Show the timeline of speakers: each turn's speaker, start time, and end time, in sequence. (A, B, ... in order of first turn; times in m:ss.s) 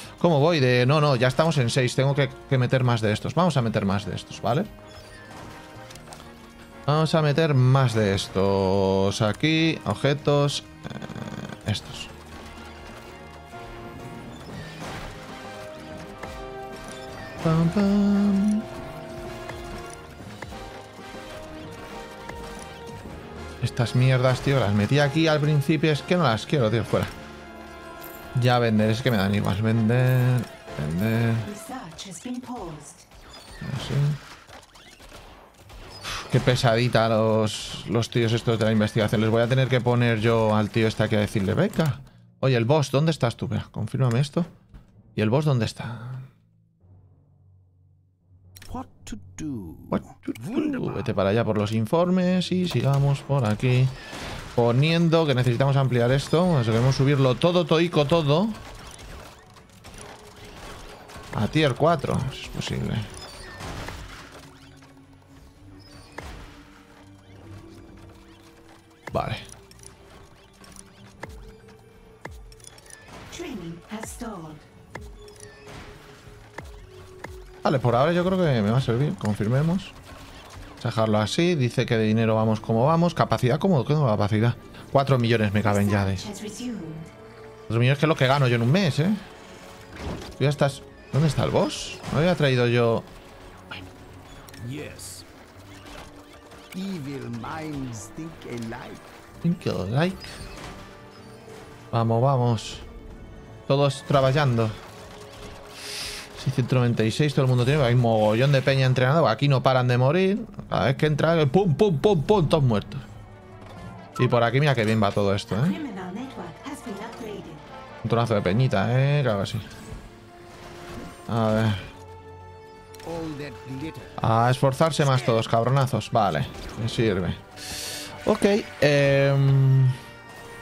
0:00.2-0:04.7 A
0:06.9-0:12.1 A
0:17.4-0:18.6 A
0:23.6-0:27.1 A
0:28.3-0:31.5 A
0:31.4-0:33.0 B
0:33.6-0:34.2 A
0:36.2-0:44.5 A
0:45.2-0:46.3 A
0:48.6-0:51.1 C
0:49.9-0:53.9 A
0:54.5-0:58.6 A
1:01.3-1:03.1 A
1:09.1-1:09.4 A
1:13.3-1:14.6 B
1:17.6-1:19.9 A
1:20.8-1:26.2 A
1:25.6-1:27.1 B
1:27.7-1:29.2 A
1:30.4-1:33.1 A
1:34.6-1:35.3 C
1:36.7-1:39.1 C
1:39.4-1:40.4 A
1:41.9-1:42.8 A
1:43.7-1:44.8 A
1:46.4-1:53.0 A
1:54.2-1:55.8 A
1:55.5-1:57.7 B
1:58.0-1:59.7 A
2:01.3-2:01.9 A
2:03.0-2:04.3 C
2:04.2-2:07.4 A
2:08.2-2:10.0 A